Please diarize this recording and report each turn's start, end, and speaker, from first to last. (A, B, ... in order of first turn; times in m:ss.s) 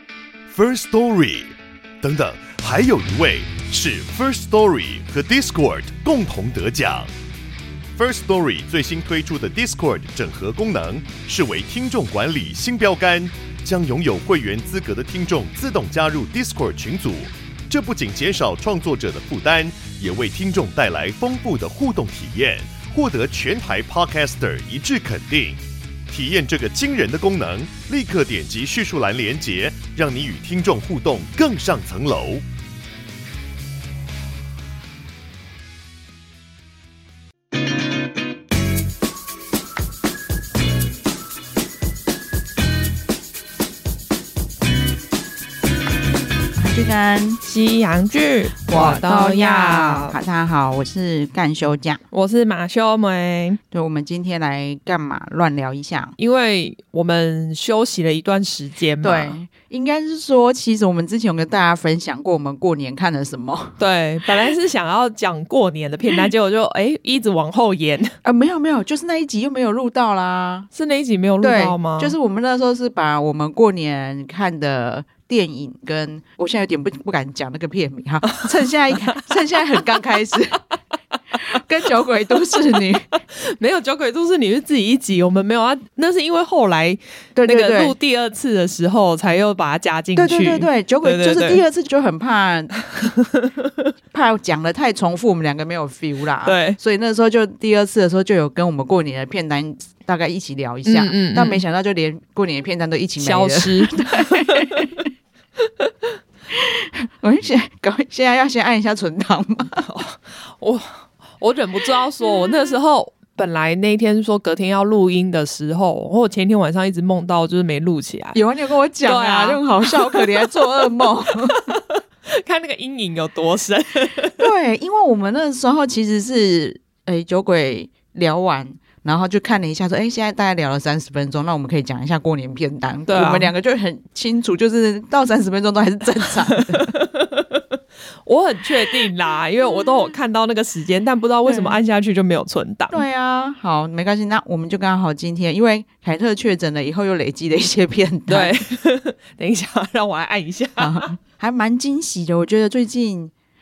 0:00.5-0:07.1 A
0:08.0-0:32.4 A
0:46.6-0:47.4 B
0:47.4-0:50.2 C
0:48.7-0:52.0 B
0:52.1-0:53.6 C
0:53.7-0:56.2 B
0:56.2-0:59.4 C
0:59.0-1:03.8 B
1:03.8-1:08.2 C
1:08.2-1:10.7 B
1:10.7-1:12.1 C
1:11.4-1:20.6 B
1:21.5-1:23.1 B
1:22.5-1:22.8 C
1:23.4-1:31.6 C
1:27.4-1:28.0 B
1:30.2-1:32.7 B
1:33.0-1:33.7 C
1:34.1-1:45.1 B
1:36.4-1:36.8 C
1:40.9-1:41.6 C
1:43.2-1:44.9 C
1:46.5-1:49.8 B
1:49.8-1:58.4 C
1:58.4-2:01.8 B
1:59.0-2:00.8 C
2:01.5-2:04.4 C
2:04.4-2:16.9 B
2:13.1-2:13.5 C
2:16.5-2:17.6 C
2:18.3-2:23.0 C
2:21.5-2:21.8 B
2:22.9-2:28.6 B
2:28.3-2:31.1 C
2:30.8-2:33.3 B